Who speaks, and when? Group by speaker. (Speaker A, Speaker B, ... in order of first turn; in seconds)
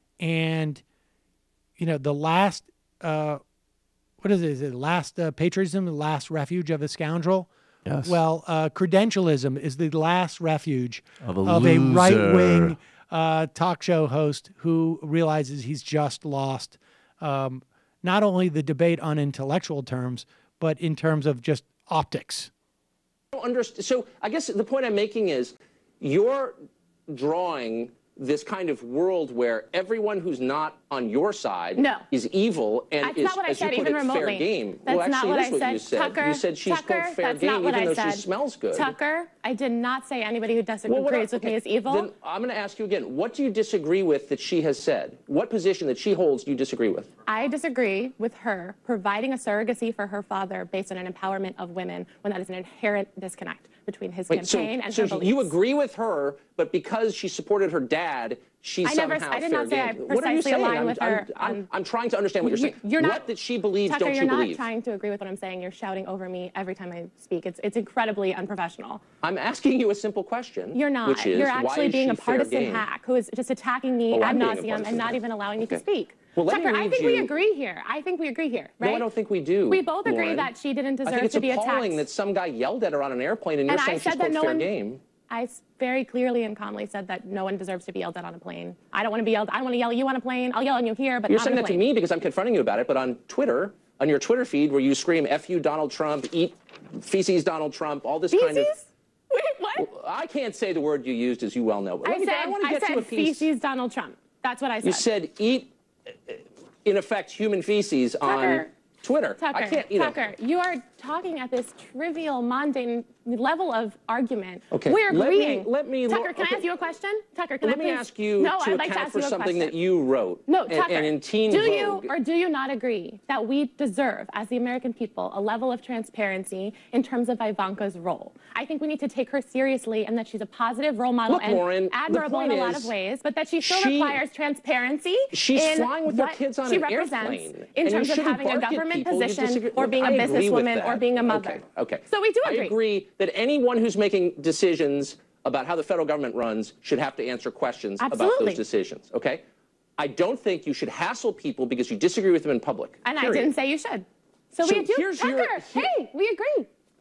Speaker A: 0.2-0.8, 1.8-3.4, 4.2-7.5, 8.0-22.5
Speaker B: 7.8-8.2, 11.2-12.8
Speaker C: 23.3-26.6, 27.1-38.9, 40.9-47.1, 54.3-64.7, 69.2-72.9, 74.1-75.8, 76.3-77.3, 78.8-80.5, 81.0-85.0, 91.3-98.7, 99.8-103.5, 104.8-110.2, 114.7-116.7, 117.6-122.1, 131.3-132.9, 133.6-134.2, 135.3-149.4, 150.0-153.5, 154.6-155.9
Speaker D: 31.8-32.0, 33.0-42.1, 47.2-55.5, 58.8-61.6, 62.4-63.2, 63.9-69.0, 70.7-79.1, 79.7-82.0, 83.7-84.7, 85.3-91.8, 98.3-99.8, 102.0-105.0, 108.2-108.7, 109.4-119.7, 120.5-142.7, 148.0-148.6, 153.0-156.7